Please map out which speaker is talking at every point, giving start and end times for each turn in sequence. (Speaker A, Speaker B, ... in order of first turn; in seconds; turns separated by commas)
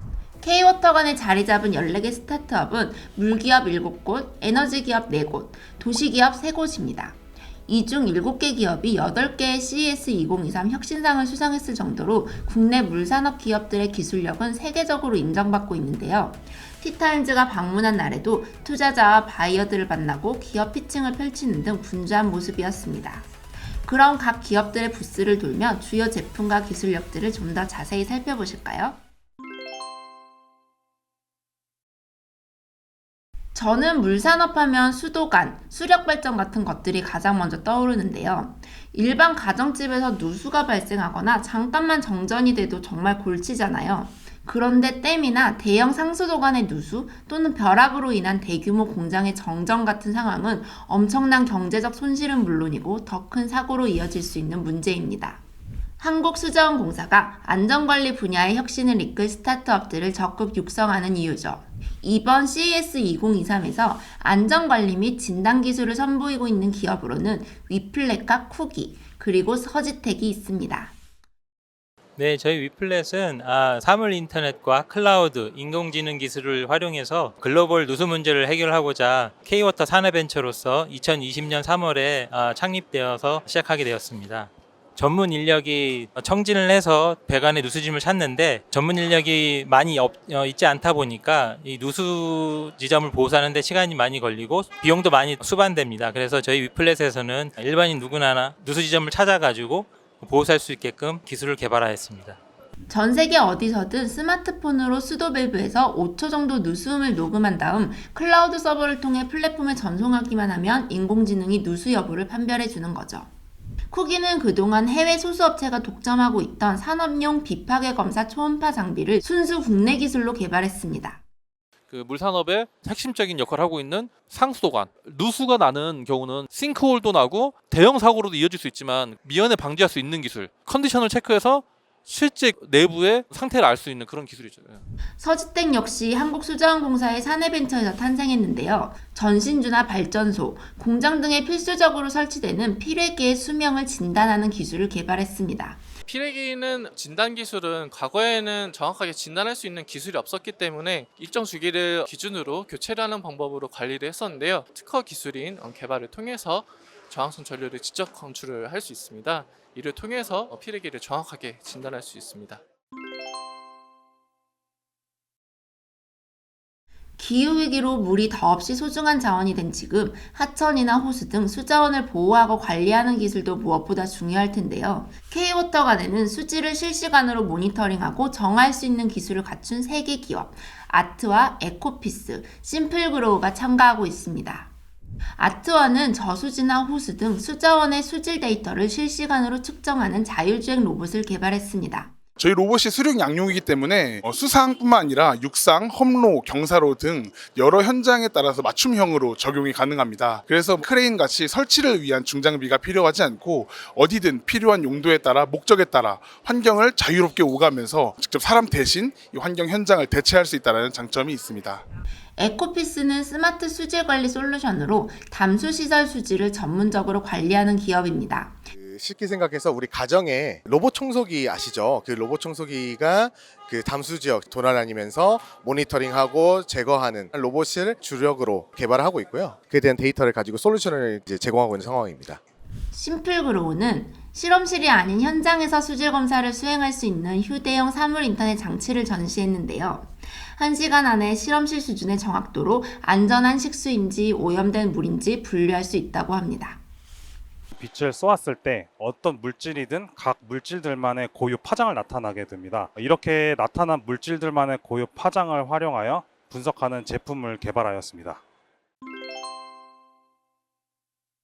Speaker A: 0.4-7.2, Speaker A: 7.7-23.3, Speaker A: 23.9-29.0, Speaker A: 33.5-55.4, Speaker A: 56.0-70.9, Speaker B: 72.2-102.4, Speaker A: 102.9-113.3, Speaker A: 113.9-121.2, Speaker C: 122.0-131.6, Speaker C: 132.1-134.8, Speaker A: 135.2-145.8, Speaker D: 146.1-162.6, Speaker A: 167.2-184.7, Speaker A: 185.4-192.1, Speaker E: 192.4-211.8, Speaker A: 212.4-218.7, Speaker F: 218.9-232.4, Speaker A: 232.9-246.8, Speaker G: 247.8-258.4